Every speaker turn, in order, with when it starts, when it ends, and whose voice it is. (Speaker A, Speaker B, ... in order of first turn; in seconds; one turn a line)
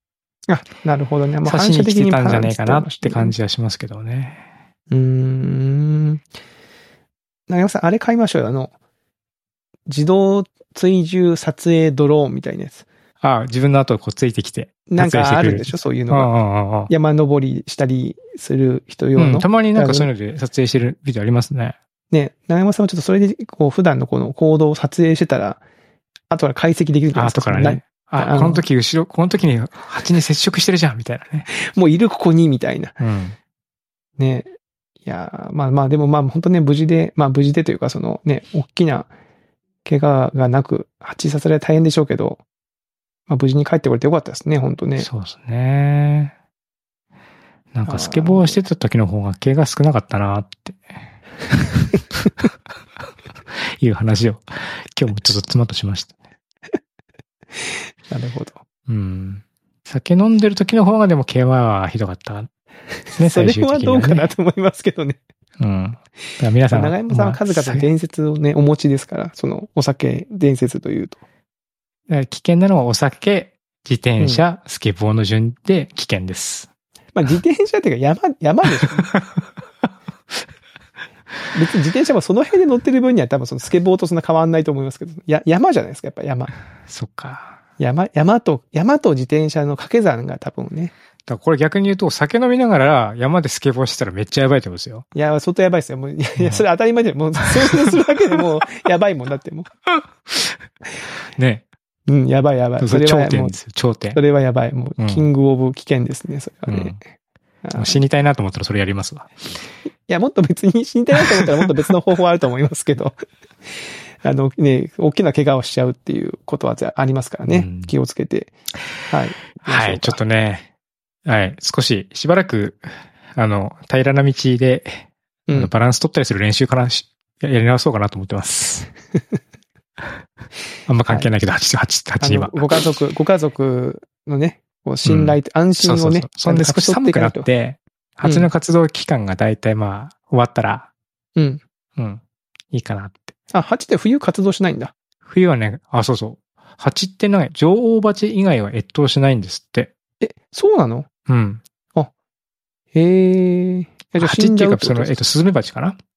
Speaker A: 0.5-3.3
Speaker B: 1.4-4.4
Speaker A: 4.9-6.2
Speaker A: 7.5-8.7
Speaker A: 9.9-12.8
Speaker B: 13.2-16.9
Speaker A: 14.9-16.3
Speaker A: 16.9-20.1
Speaker B: 19.2-21.8
Speaker A: 22.1-25.6
Speaker A: 26.3-28.6
Speaker B: 27.1-31.5
Speaker A: 31.5-32.9
Speaker B: 33.0-33.4
Speaker A: 34.2-34.5
Speaker A: 35.0-39.1
Speaker A: 39.8-42.4
Speaker A: 43.3-45.1
Speaker B: 45.0-46.3
Speaker B: 47.7-50.8
Speaker A: 47.9-48.6
Speaker B: 51.5-52.5
Speaker B: 53.8-56.1
Speaker A: 57.6-58.6
Speaker B: 58.9-62.5
Speaker A: 63.1-65.2
Speaker B: 63.2-64.3
Speaker B: 65.6-67.9
Speaker A: 66.7-71.2
Speaker B: 72.1-76.7
Speaker A: 77.1-79.1
Speaker B: 79.1-79.4
Speaker A: 81.5-86.5
Speaker B: 86.9-87.6
Speaker A: 87.8-90.9
Speaker B: 91.3-95.0
Speaker A: 95.1-99.7
Speaker B: 101.3-101.6
Speaker A: 102.1-103.6
Speaker B: 102.8-104.2
Speaker A: 104.1-107.0
Speaker B: 105.0-105.2
Speaker B: 106.7-107.0
Speaker A: 107.6-108.0
Speaker B: 107.7-109.5
Speaker A: 110.1-113.2
Speaker A: 114.2-118.5
Speaker B: 117.5-117.9
Speaker A: 119.1-120.2
Speaker B: 119.6-120.7
Speaker B: 121.2-128.9
Speaker B: 130.9-132.7
Speaker A: 132.2-137.4
Speaker B: 135.0-140.9
Speaker A: 141.3-141.6
Speaker B: 142.0-143.3
Speaker A: 143.5-144.9
Speaker B: 145.2-149.9
Speaker A: 150.2-151.1
Speaker B: 151.3-151.6
Speaker A: 152.9-155.2
Speaker B: 154.2-156.0